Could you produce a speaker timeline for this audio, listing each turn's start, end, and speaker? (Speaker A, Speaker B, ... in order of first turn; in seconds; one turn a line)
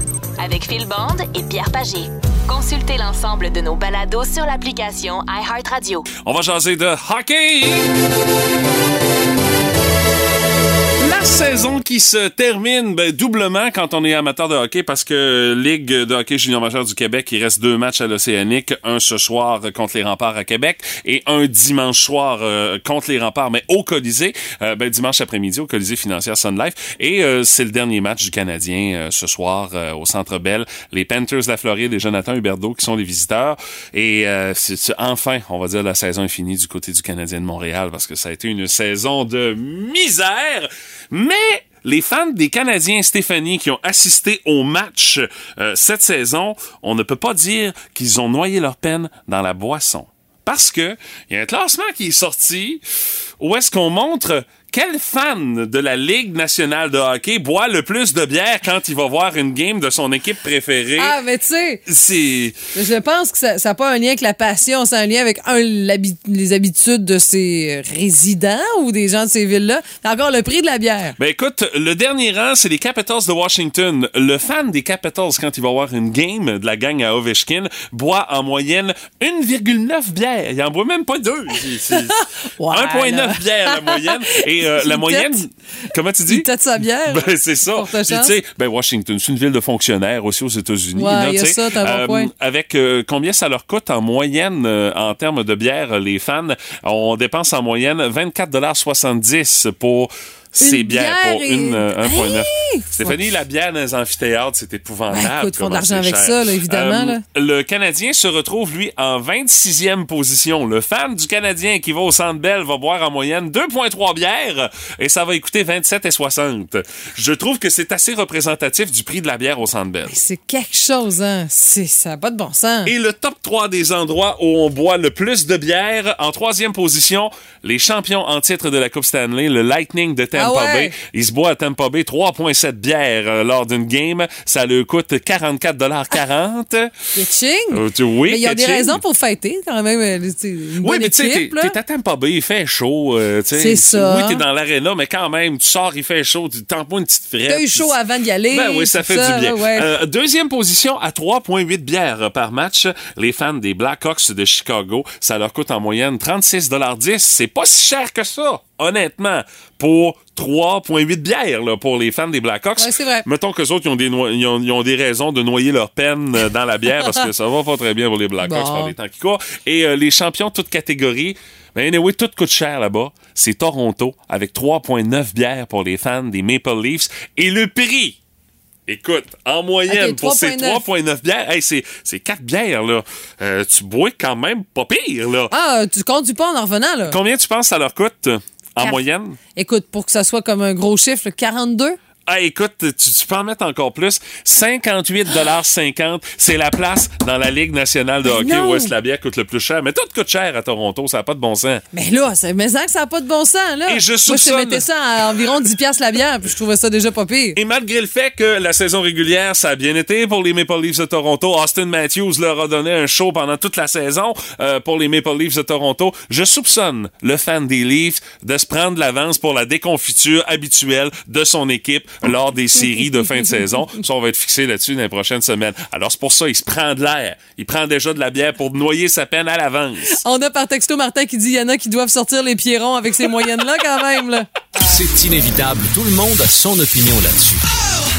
Speaker A: 0.4-6.1
Speaker B: 6.2-7.9
Speaker B: 11.0-52.8
Speaker B: 53.4-61.1
Speaker C: 61.0-61.8
Speaker B: 61.9-62.5
Speaker C: 62.7-71.2
Speaker B: 71.2-82.2
Speaker C: 81.9-85.4
Speaker B: 82.7-86.5
Speaker C: 86.3-88.3
Speaker B: 87.1-120.1
Speaker C: 90.9-92.3
Speaker C: 100.6-103.2
Speaker C: 105.1-107.2
Speaker C: 120.1-122.9
Speaker B: 122.8-136.9
Speaker C: 130.3-130.9
Speaker C: 137.1-141.8
Speaker B: 137.7-139.0
Speaker B: 140.8-147.9
Speaker C: 143.6-144.4
Speaker C: 147.5-149.9
Speaker B: 148.5-178.2
Speaker C: 162.8-163.2
Speaker C: 168.4-168.9
Speaker B: 178.9-185.5
Speaker C: 179.9-180.8
Speaker C: 185.5-187.2
Speaker B: 187.1-189.4
Speaker C: 189.5-192.0
Speaker B: 192.3-201.8
Speaker C: 198.2-198.9
Speaker C: 201.9-207.6
Speaker B: 203.9-204.8
Speaker B: 207.6-230.2
Speaker C: 230.2-234.5
Speaker D: 234.8-237.6